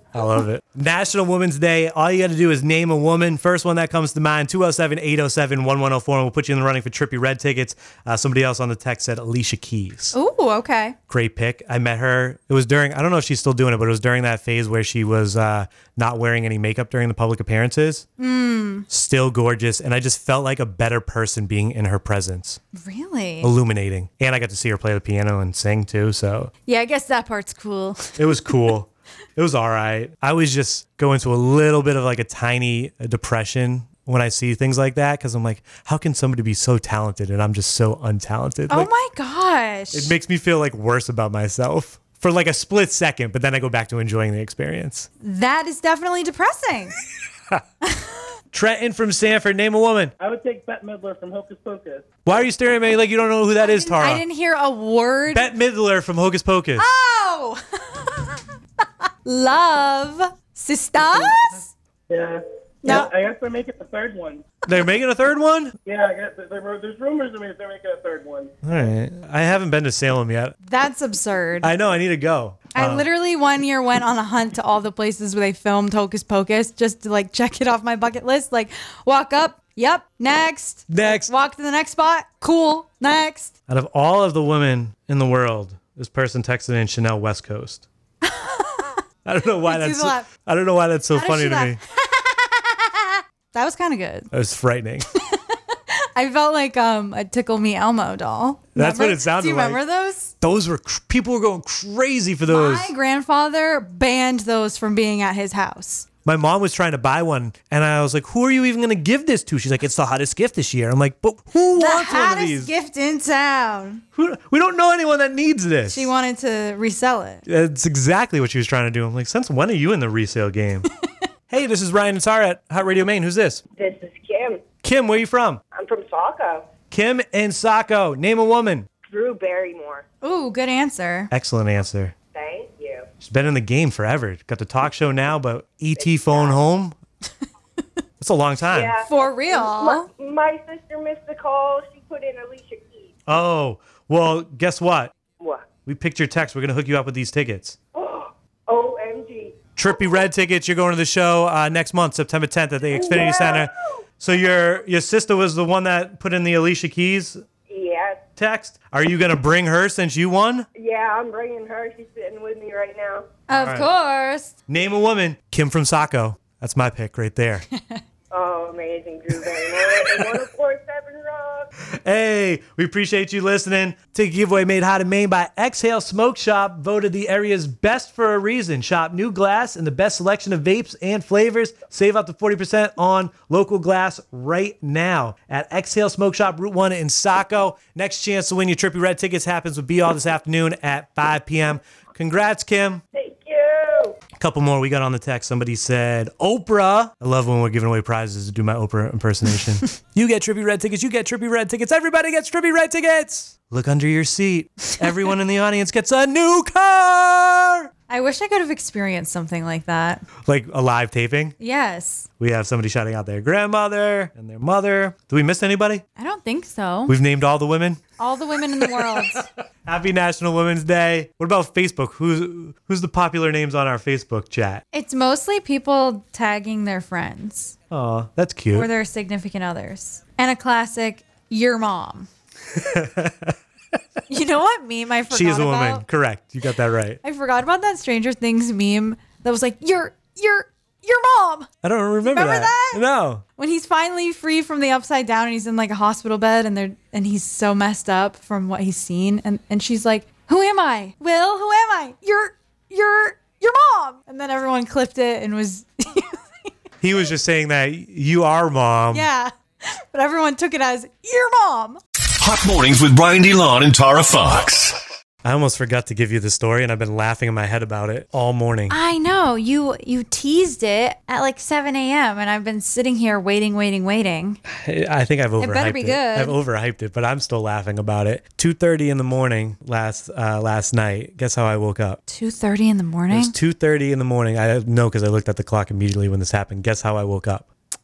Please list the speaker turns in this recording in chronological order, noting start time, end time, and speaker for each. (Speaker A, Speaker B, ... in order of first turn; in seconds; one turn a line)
Speaker A: 0.1-10.2
Speaker B: 10.1-11.0
Speaker A: 11.1-18.1
Speaker B: 18.2-18.9
Speaker A: 18.9-22.6
Speaker B: 22.7-23.5
Speaker A: 23.4-26.5
Speaker B: 26.7-28.2
Speaker A: 28.2-38.9
Speaker B: 38.7-40.1
Speaker A: 39.9-45.1
Speaker B: 45.2-47.0
Speaker B: 47.8-48.1
Speaker A: 48.5-50.1
Speaker C: 50.2-52.1
Speaker A: 52.2-54.2
Speaker B: 53.6-55.5
Speaker A: 55.3-56.9
Speaker B: 56.8-58.4
Speaker B: 59.2-61.7
Speaker A: 61.1-61.5
Speaker C: 62.1-64.5
Speaker B: 62.8-63.1
Speaker A: 64.6-65.8
Speaker C: 65.9-68.5
Speaker A: 68.6-70.6
Speaker B: 70.7-71.7
Speaker A: 71.6-73.1
Speaker B: 72.7-83.5
Speaker A: 80.9-81.3
Speaker A: 83.7-87.8
Speaker B: 88.2-89.0
Speaker A: 89.2-91.8
Speaker B: 89.7-90.3
Speaker B: 91.1-94.3
Speaker A: 94.3-95.1
Speaker B: 95.9-100.3
Speaker A: 98.8-99.8
Speaker A: 100.4-102.9
Speaker B: 102.5-106.1
Speaker A: 106.2-112.7
Speaker B: 111.7-114.0
Speaker A: 114.2-116.1
Speaker B: 115.9-117.5
Speaker A: 117.5-120.9
Speaker A: 121.5-123.6
Speaker D: 123.8-124.6
Speaker A: 124.8-125.6
Speaker D: 125.8-126.7
Speaker A: 126.9-128.9
Speaker D: 129.1-130.0
Speaker B: 130.2-131.3
Speaker A: 131.3-132.2
Speaker D: 132.3-133.1
Speaker A: 133.2-137.0
Speaker A: 138.2-139.0
Speaker D: 138.7-143.1
Speaker B: 139.0-140.1
Speaker A: 143.3-145.1
Speaker A: 145.9-147.8
Speaker D: 148.0-149.5
Speaker A: 149.8-157.4
Speaker D: 153.2-153.6
Speaker D: 157.7-158.2
Speaker A: 158.4-160.7
Speaker D: 160.8-163.2
Speaker B: 163.5-164.5
Speaker A: 163.5-163.9
Speaker A: 164.7-167.7
Speaker B: 167.7-168.0
Speaker D: 168.3-171.7
Speaker A: 171.9-193.0
Speaker D: 193.2-194.2
Speaker A: 194.4-207.9
Speaker B: 208.1-210.2
Speaker A: 210.4-211.6
Speaker B: 211.6-212.3
Speaker A: 212.4-216.0
Speaker B: 216.2-217.1
Speaker A: 217.1-218.0
Speaker B: 218.2-219.5
Speaker A: 218.8-224.8
Speaker B: 224.9-227.8
Speaker A: 227.9-228.9
Speaker B: 228.7-232.3
Speaker A: 232.8-233.6
Speaker B: 234.3-236.0
Speaker A: 235.3-237.2
Speaker B: 237.2-241.7
Speaker A: 241.8-243.4
Speaker B: 242.2-243.0
Speaker B: 243.6-256.4
Speaker A: 257.0-259.3
Speaker B: 259.1-262.0
Speaker E: 262.4-265.0
Speaker A: 265.4-269.0
Speaker B: 268.9-274.6
Speaker A: 274.7-282.2
Speaker B: 275.6-276.6
Speaker B: 282.3-283.6
Speaker A: 283.3-287.7